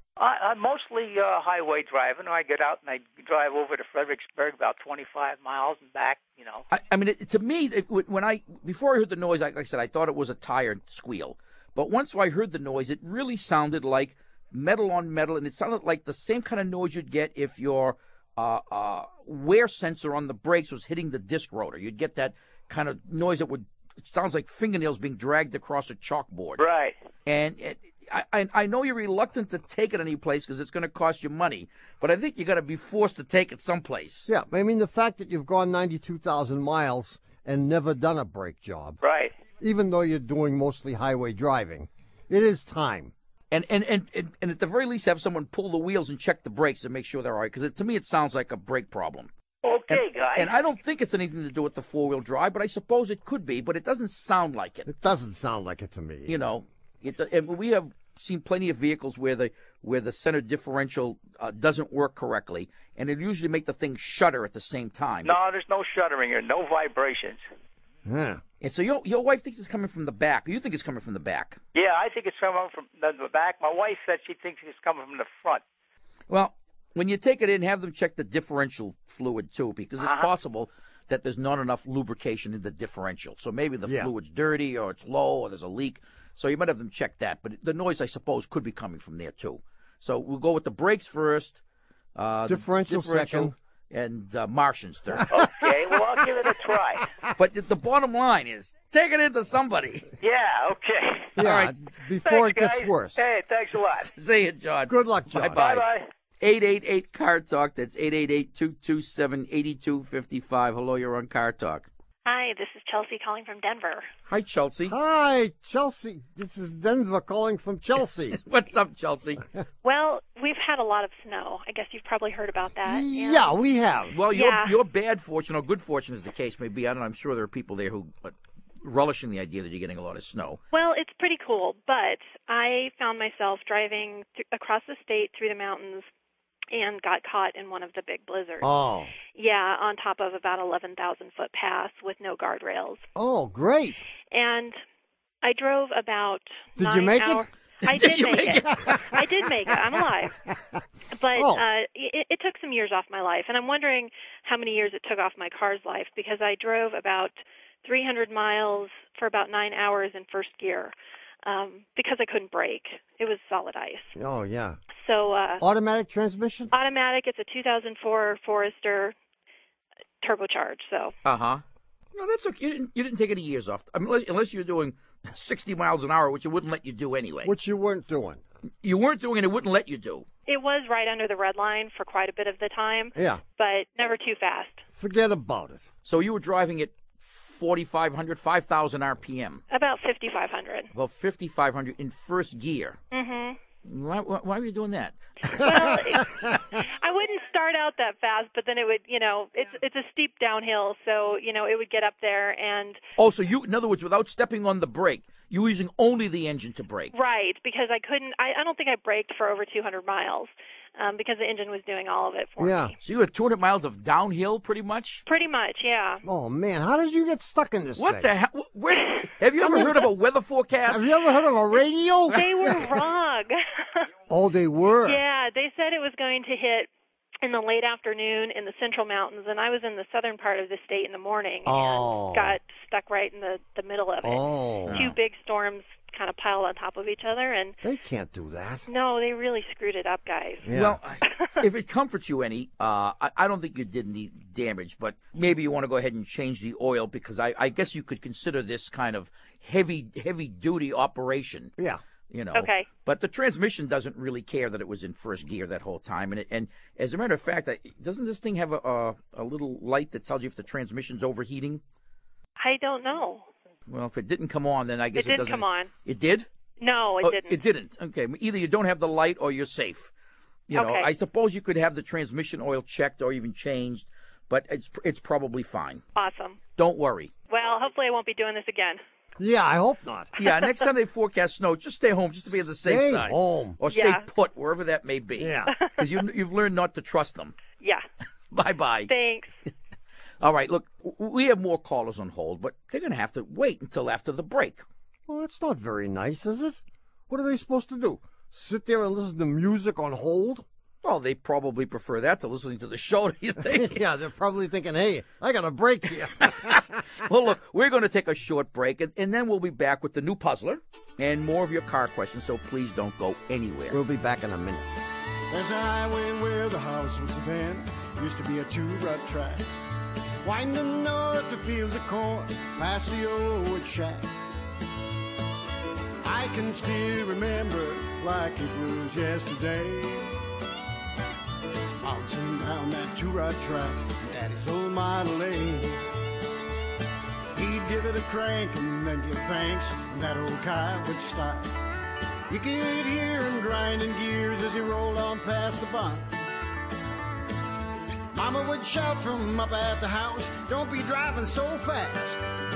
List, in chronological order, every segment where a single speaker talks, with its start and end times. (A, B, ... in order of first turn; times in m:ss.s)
0:00.2-0:06.7 A
0:06.7-0:26.6 B
0:26.6-0:27.0 A
0:27.3-0:34.3 B
0:34.3-0:39.0 C
0:39.0-0:39.4 A
0:39.6-0:43.1 C
0:43.5-0:49.3 B
0:49.6-0:50.5 A
0:49.9-0:54.9 B
0:54.9-0:56.4 C
0:56.3-1:05.4 B
1:05.2-1:07.4 A
1:08.1-1:08.4 C
1:08.6-1:11.6 B
1:11.8-1:15.6 A
1:16.3-1:31.6 B
1:20.0-1:20.3 A
1:23.9-1:24.1 C
1:32.2-1:35.3 B
1:32.5-1:33.6 C
1:35.3-1:37.1 A
1:37.4-1:40.1 B
1:40.2-1:41.4 A
1:41.4-1:43.2 C
1:41.4-1:41.8 B
1:42.2-1:44.1 A
1:43.9-1:45.8 B
1:44.9-1:45.6 C
1:45.6-1:46.1 A
1:46.4-1:51.9 B
1:52.2-1:54.1 D
1:54.3-1:55.0 B
1:54.9-1:58.4 C
1:58.4-1:59.4 B
1:59.8-2:03.5 D
2:02.8-2:04.2 C
2:04.1-2:10.6 B
2:04.2-2:04.8 D
2:10.7-2:16.1 D
2:16.7-2:18.7 D
2:18.6-2:19.1 C
2:19.3-2:23.0 D
2:23.2-2:24.0 C
2:24.3-2:24.8 D
2:25.4-2:30.4 D
2:26.8-2:27.5 C
2:27.9-2:28.8 B
2:28.5-2:29.4 C
2:30.5-2:30.8 C
2:31.1-2:40.9 D
2:31.4-2:31.6 C
2:41.4-2:44.2 D
2:44.2-2:44.8 C
2:45.0-2:45.6 D
2:45.6-2:46.7 C
2:46.7-2:49.2 D
2:50.2-2:51.2 D
2:51.2-2:57.5 B
2:57.4-2:58.4 C
2:58.8-3:00.2 B
3:00.5-3:04.8 D
3:03.2-3:03.4 C
3:05.0-3:05.8 C
3:06.0-3:09.6 B
3:09.7-3:10.9 D
3:10.9-3:13.0 B
3:13.1-3:13.6 D
3:13.8-3:15.2 B
3:15.5-3:23.0 D
3:23.2-3:27.1 B
3:27.1-3:32.9 D
3:32.6-3:32.9 C
3:33.0-3:35.2 B
3:35.3-3:36.2 D
3:36.2-3:38.3 C
3:38.0-3:41.1 B
3:39.6-3:40.0 C
3:40.9-3:43.0 C
3:42.3-3:44.1 D
3:44.3-3:45.2 C
3:45.0-3:46.9 D
3:47.4-3:57.8 D
3:51.6-3:52.6 C
3:54.2-3:55.1 C
3:54.9-3:55.1 B
3:57.8-3:58.9 C
3:58.9-4:00.7 D
4:00.6-4:01.0 C
4:00.7-4:11.7 B
4:01.2-4:01.6 D
4:12.3-4:21.8 B
4:12.5-4:12.9 D
4:22.6-4:23.5 D
4:23.9-4:26.5 B
4:25.2-4:25.9 D
4:26.8-4:27.6 D
4:27.2-4:30.1 B
4:30.7-4:36.0 B
4:30.7-4:31.1 D
4:36.2-4:36.6 D
4:36.8-4:37.3 B
4:37.5-4:39.0 D
4:39.4-4:40.3 C
4:40.4-4:47.6 B
4:40.4-4:40.8 D
4:42.8-4:43.8 C
4:43.9-4:44.3 D
4:45.4-4:45.7 C
4:45.7-4:46.0 D
4:47.8-4:48.0 D
4:48.5-4:49.1 B
4:49.1-4:49.5 D
4:50.4-4:54.8 B
4:55.3-5:00.7 C
5:01.0-5:04.0 B
5:03.6-5:06.8 C
5:06.4-5:14.0 B
5:13.9-5:14.9 C
5:15.5-5:19.7 E
5:20.4-5:24.3 E
5:26.2-5:30.4 E
5:32.0-5:36.0 E
5:37.5-5:41.8 E
5:42.5-5:46.4 E
5:48.3-5:52.4 E